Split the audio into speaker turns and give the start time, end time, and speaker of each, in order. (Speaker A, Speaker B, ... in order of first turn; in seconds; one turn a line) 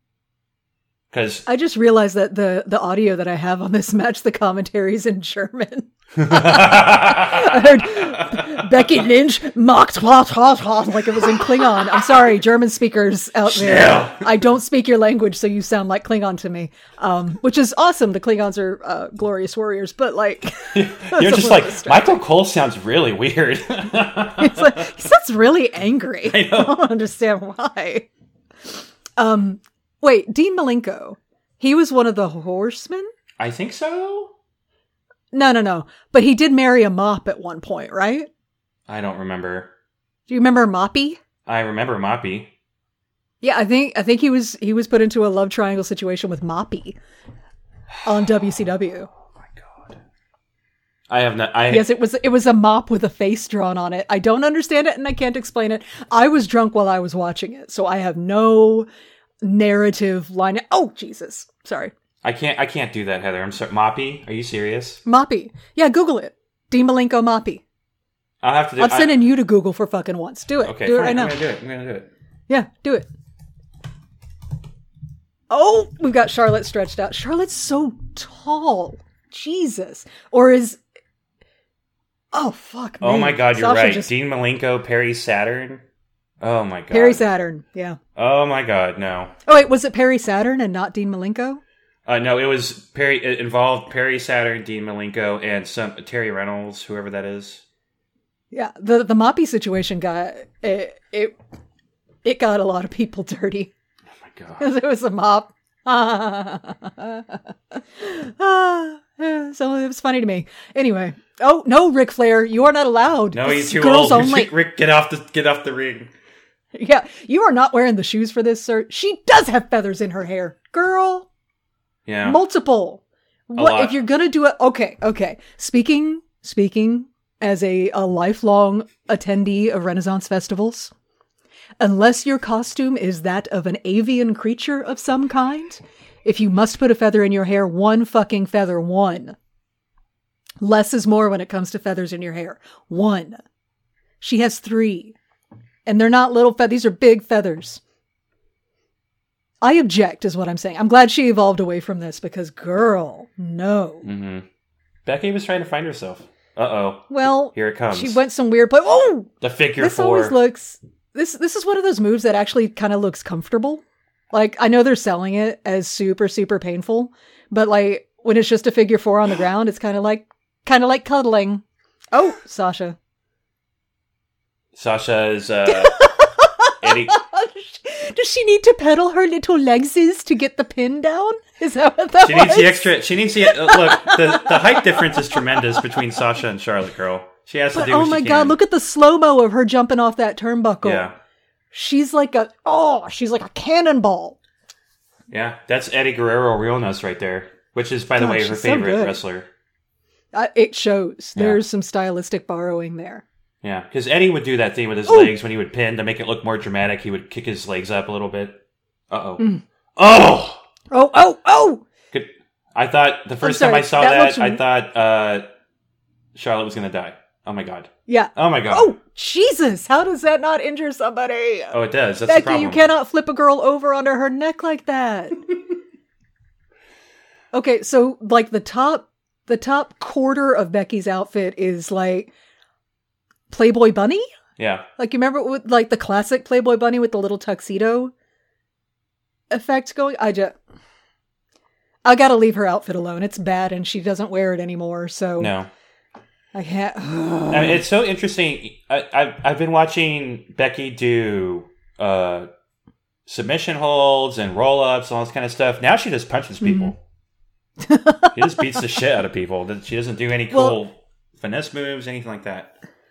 Speaker A: 1.1-1.5
Speaker B: 1.5-22.2
Speaker A: 6.2-8.3
Speaker A: 13.5-14.3
Speaker A: 20.7-24.9
Speaker B: 24.4-28.1
Speaker A: 26.3-26.8
Speaker B: 29.2-33.1
Speaker A: 33.4-34.4
Speaker B: 35.3-38.3
Speaker A: 38.9-39.7
Speaker B: 40.3-41.2
Speaker A: 41.5-42.5
Speaker B: 43.4-47.0
Speaker B: 48.0-49.1
Speaker A: 49.4-50.0
Speaker A: 51.1-51.9
Speaker B: 51.7-58.9
Speaker B: 59.4-61.9
Speaker A: 62.2-65.0
Speaker B: 65.0-67.6
Speaker A: 68.4-69.2
Speaker B: 68.8-71.4
Speaker A: 70.6-72.1
Speaker B: 72.5-73.1
Speaker B: 75.5-80.8
Speaker B: 82.3-84.1
Speaker A: 83.0-85.8
Speaker A: 86.4-87.2
Speaker B: 86.9-88.0
Speaker A: 88.1-89.3
Speaker B: 89.5-91.6
Speaker A: 92.1-97.6
Speaker B: 98.5-101.4
Speaker B: 102.2-103.7
Speaker A: 104.2-104.6
Speaker B: 104.6-114.5
Speaker A: 113.3-116.1
Speaker B: 116.8-121.3
Speaker A: 122.1-122.4
Speaker B: 122.2-130.9
Speaker A: 123.6-124.0
Speaker B: 131.8-139.4
Speaker B: 140.6-143.4
Speaker B: 144.2-145.2
Speaker B: 145.9-147.8
Speaker B: 149.6-154.1
Speaker A: 154.0-154.5
Speaker A: 155.1-158.2
Speaker B: 157.1-173.0
Speaker A: 159.4-160.4
Speaker A: 174.7-176.0
Speaker B: 175.7-185.9
Speaker A: 176.8-177.2
Speaker A: 182.2-188.6
Speaker B: 187.7-191.1
Speaker A: 190.8-191.1
Speaker B: 191.7-194.4
Speaker A: 195.3-199.5
Speaker B: 198.2-199.2
Speaker B: 200.3-203.2
Speaker A: 201.4-201.6
Speaker A: 203.6-208.6
Speaker B: 205.1-205.3
Speaker A: 209.1-210.6
Speaker B: 210.9-211.8
Speaker A: 212.1-215.5
Speaker B: 213.4-214.6
Speaker A: 216.3-218.9
Speaker B: 218.1-225.4
Speaker A: 221.7-222.8
Speaker B: 227.5-232.3
Speaker B: 233.5-234.2
Speaker A: 234.6-234.9
Speaker B: 235.0-238.1
Speaker B: 239.5-240.6
Speaker B: 242.1-245.6
Speaker A: 245.4-245.7
Speaker B: 246.5-247.8
Speaker A: 247.5-252.5
Speaker A: 253.3-257.0
Speaker B: 256.6-256.9
Speaker B: 257.8-258.4
Speaker A: 258.3-262.8
Speaker B: 260.5-260.8